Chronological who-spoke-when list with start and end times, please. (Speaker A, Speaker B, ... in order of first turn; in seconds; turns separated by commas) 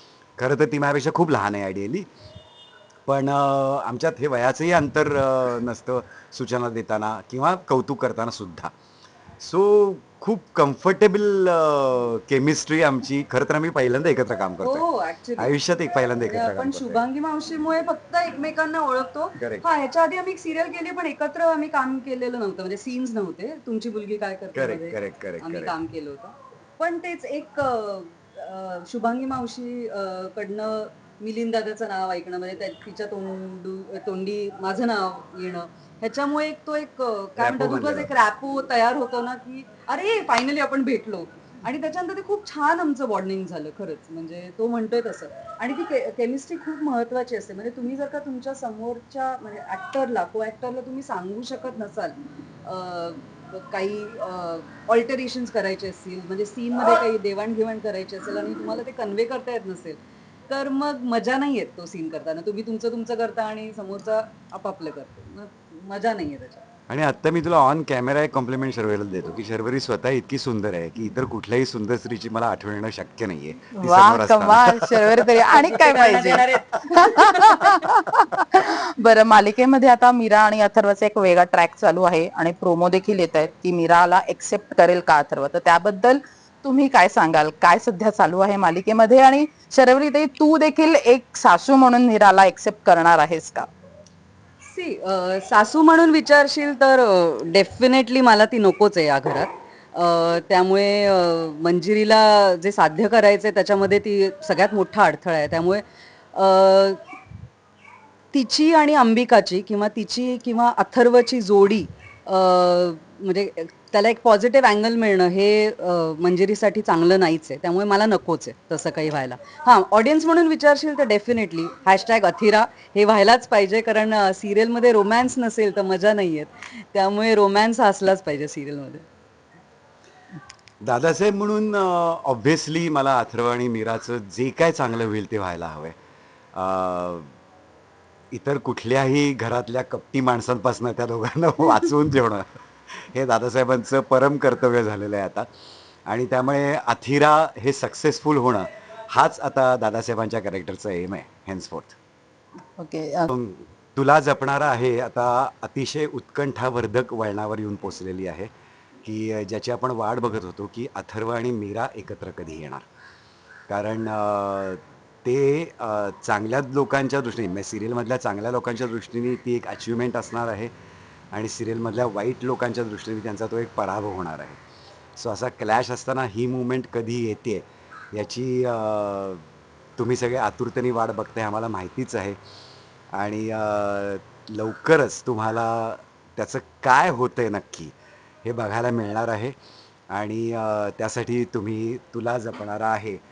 Speaker A: 0.4-2.1, Speaker A: 3.1-8.7, Speaker A: 9.4-14.8, Speaker B: 14.6-15.5, Speaker A: 15.4-17.0, Speaker B: 16.2-66.6, Speaker A: 19.4-19.7, Speaker A: 24.5-25.7, Speaker A: 37.4-38.1, Speaker A: 66.9-75.3, Speaker C: 73.7-93.7, Speaker B: 75.4-77.8, Speaker B: 94.6-107.0, Speaker B: 108.3-129.1, Speaker A: 130.8-135.9, Speaker A: 136.5-137.3, Speaker A: 138.3-145.4, Speaker A: 146.1-151.9, Speaker C: 152.8-153.3, Speaker A: 153.3-158.5, Speaker A: 159.0-162.8, Speaker A: 163.7-170.7, Speaker A: 171.3-174.6, Speaker A: 175.2-179.4, Speaker A: 180.0-182.4, Speaker A: 183.1-189.6, Speaker A: 190.1-193.2